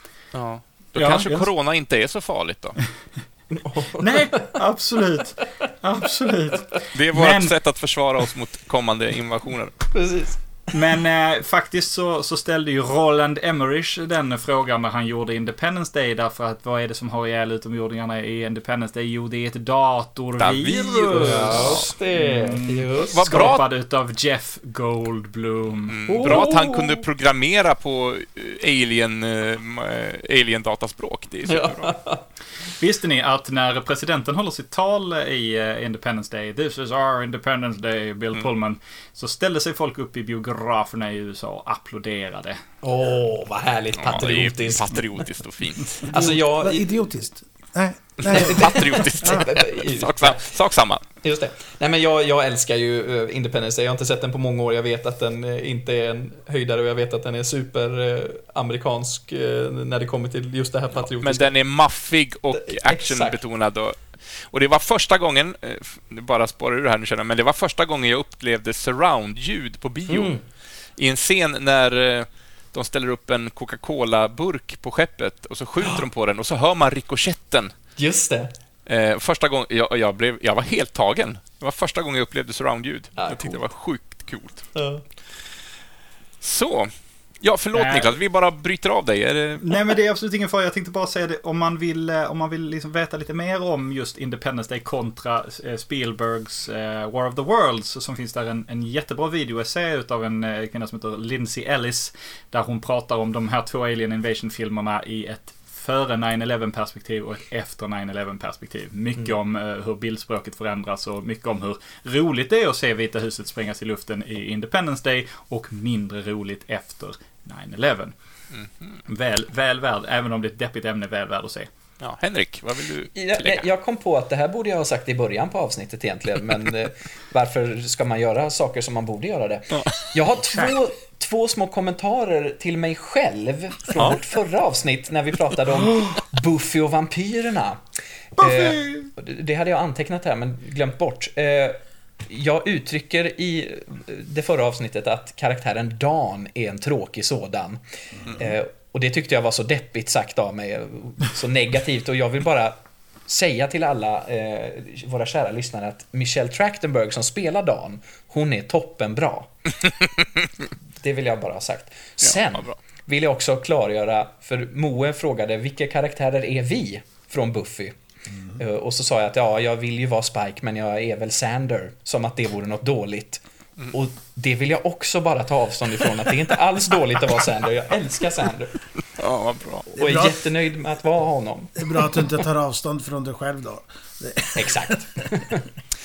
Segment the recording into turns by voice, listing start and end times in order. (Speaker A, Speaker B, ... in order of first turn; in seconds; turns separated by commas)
Speaker A: 0.3-2.8, Speaker B: 1.0-1.5, Speaker C: 3.5-4.5, Speaker B: 4.0-7.5, Speaker A: 6.9-9.7, Speaker C: 9.9-10.4, Speaker B: 10.7-26.4, Speaker A: 20.4-21.9, Speaker C: 21.2-23.5, Speaker A: 23.1-23.6, Speaker A: 25.9-31.9, Speaker C: 26.1-27.1, Speaker C: 31.5-32.3, Speaker B: 32.8-42.6, Speaker C: 42.8-45.2, Speaker A: 44.0-46.1, Speaker C: 46.1-47.0, Speaker D: 46.1-49.5, Speaker A: 48.2-51.0, Speaker C: 48.2-50.5, Speaker C: 51.2-61.5, Speaker A: 61.2-70.4, Speaker C: 62.5-63.4, Speaker C: 70.1-70.4, Speaker A: 71.0-77.7, Speaker C: 78.0-78.5, Speaker A: 78.9-84.7, Speaker C: 83.2-83.6, Speaker C: 84.8-85.0, Speaker A: 86.4-89.8, Speaker B: 87.8-88.1, Speaker B: 89.6-118.1, Speaker A: 118.5-119.0, Speaker B: 119.1-121.7, Speaker A: 122.0-123.7, Speaker C: 123.2-137.8, Speaker A: 129.7-130.1, Speaker C: 138.4-152.8, Speaker B: 138.4-139.1, Speaker C: 153.3-159.5, Speaker C: 161.0-168.0, Speaker A: 162.2-162.8, Speaker C: 168.6-178.8, Speaker A: 179.2-179.9, Speaker D: 179.9-180.4, Speaker C: 179.9-182.3, Speaker D: 181.8-185.0, Speaker C: 184.6-185.7